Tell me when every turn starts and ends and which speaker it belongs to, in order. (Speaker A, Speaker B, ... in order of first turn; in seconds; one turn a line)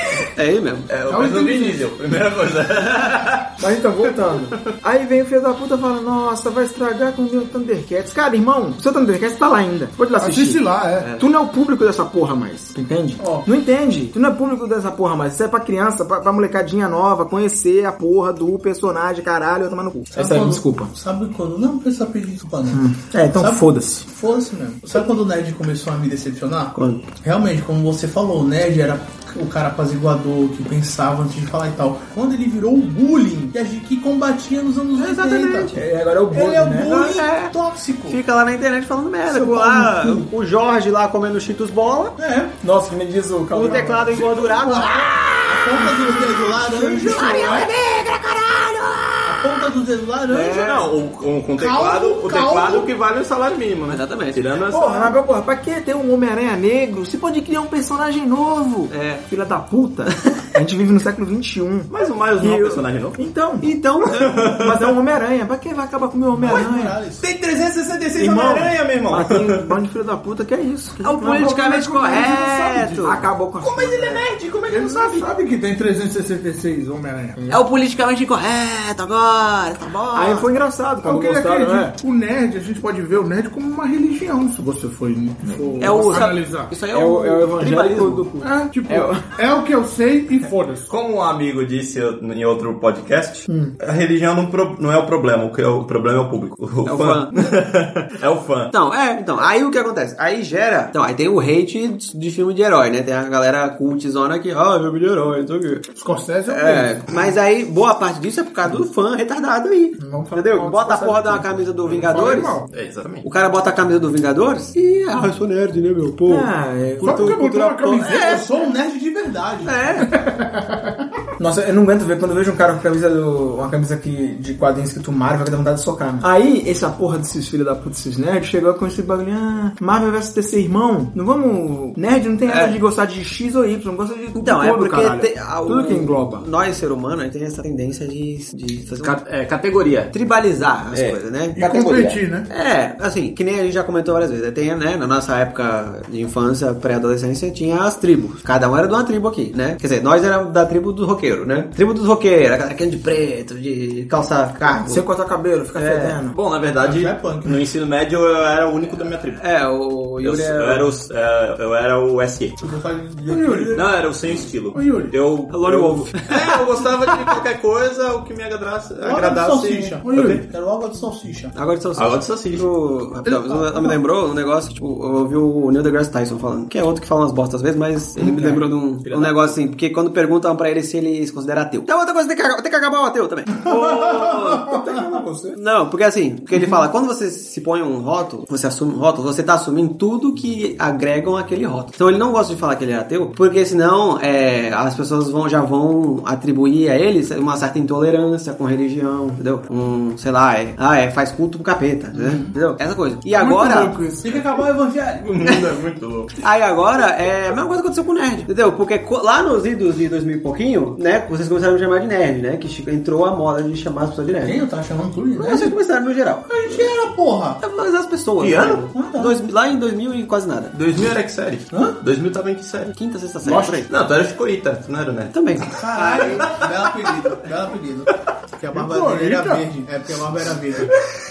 Speaker A: 0.3-0.9
Speaker B: 0.9-4.7
Speaker C: 1.1-1.8
Speaker D: 3.6-10.6
Speaker C: 10.2-11.1
Speaker D: 11.2-20.9
Speaker E: 20.1-35.8
Speaker D: 22.7-24.1
Speaker A: 26.7-27.1
Speaker A: 35.0-35.8
Speaker D: 35.7-37.1
Speaker E: 36.3-38.2
Speaker A: 36.8-37.5
Speaker A: 38.1-42.2
Speaker E: 39.3-40.3
Speaker E: 42.2-42.6
Speaker D: 42.6-44.3
Speaker A: 43.5-49.5
Speaker E: 44.1-47.7
Speaker E: 49.2-50.7
Speaker A: 50.3-50.9
Speaker B: 50.6-55.1
Speaker E: 51.6-52.9
Speaker A: 53.9-54.4
Speaker D: 54.7-63.7
Speaker A: 58.9-59.2
Speaker B: 61.9-63.2
Speaker A: 63.6-64.4
Speaker B: 64.1-64.9
Speaker D: 64.4-67.0
Speaker E: 66.4-67.2
Speaker B: 67.2-69.7
Speaker D: 68.2-74.2
Speaker A: 71.0-73.3
Speaker B: 73.6-75.3
Speaker C: 74.7-77.4
Speaker D: 77.4-77.6
Speaker A: 77.5-80.5
Speaker D: 80.1-81.9
Speaker C: 81.0-86.7
Speaker D: 85.4-86.3
Speaker A: 85.8-88.3
Speaker D: 86.9-89.3
Speaker C: 88.4-90.9
Speaker B: 90.9-98.7
Speaker D: 93.5-93.7
Speaker A: 96.8-97.3
Speaker A: 98.7-105.9
Speaker C: 105.9-107.1
Speaker A: 106.5-112.6
Speaker D: 110.0-111.5
Speaker C: 112.1-112.7
Speaker B: 112.7-113.2
Speaker A: 113.2-116.5
Speaker D: 116.3-117.4
Speaker C: 117.0-118.5
Speaker A: 117.0-118.4
Speaker E: 118.1-119.8
Speaker A: 119.7-120.1
Speaker C: 120.2-120.9
Speaker D: 121.4-136.4
Speaker A: 132.5-132.8
Speaker A: 134.3-139.2
Speaker B: 139.0-140.1
Speaker A: 140.1-141.6
Speaker B: 140.9-141.2
Speaker C: 141.6-142.5
Speaker D: 141.6-142.2
Speaker A: 142.5-155.0
Speaker D: 154.9-156.4
Speaker A: 155.8-156.1
Speaker B: 155.9-159.4
Speaker E: 156.8-157.6
Speaker A: 159.4-160.9
Speaker B: 160.2-162.6
Speaker E: 162.6-163.9
Speaker C: 163.3-163.8
Speaker B: 163.7-170.4
Speaker C: 164.7-165.1
Speaker A: 165.5-167.4
Speaker E: 169.0-171.5
Speaker C: 170.0-170.4
Speaker A: 171.5-184.5
Speaker B: 172.0-172.7
Speaker C: 173.2-174.0
Speaker D: 178.2-178.6
Speaker B: 179.1-179.3
Speaker E: 183.6-185.2
Speaker D: 183.7-185.6
Speaker A: 185.5-204.0
Speaker E: 202.1-202.5
Speaker C: 203.3-204.5
Speaker E: 204.2-205.4
Speaker B: 205.2-206.3
Speaker A: 206.4-214.6
Speaker E: 214.4-215.8
Speaker A: 215.4-216.9
Speaker E: 216.5-217.6
Speaker A: 217.6-220.7
Speaker B: 218.4-218.9
Speaker E: 218.9-219.4
Speaker B: 220.7-225.3
Speaker A: 222.9-223.9
Speaker A: 225.3-226.5
Speaker E: 225.7-230.9
Speaker B: 226.5-226.9
Speaker C: 228.7-229.6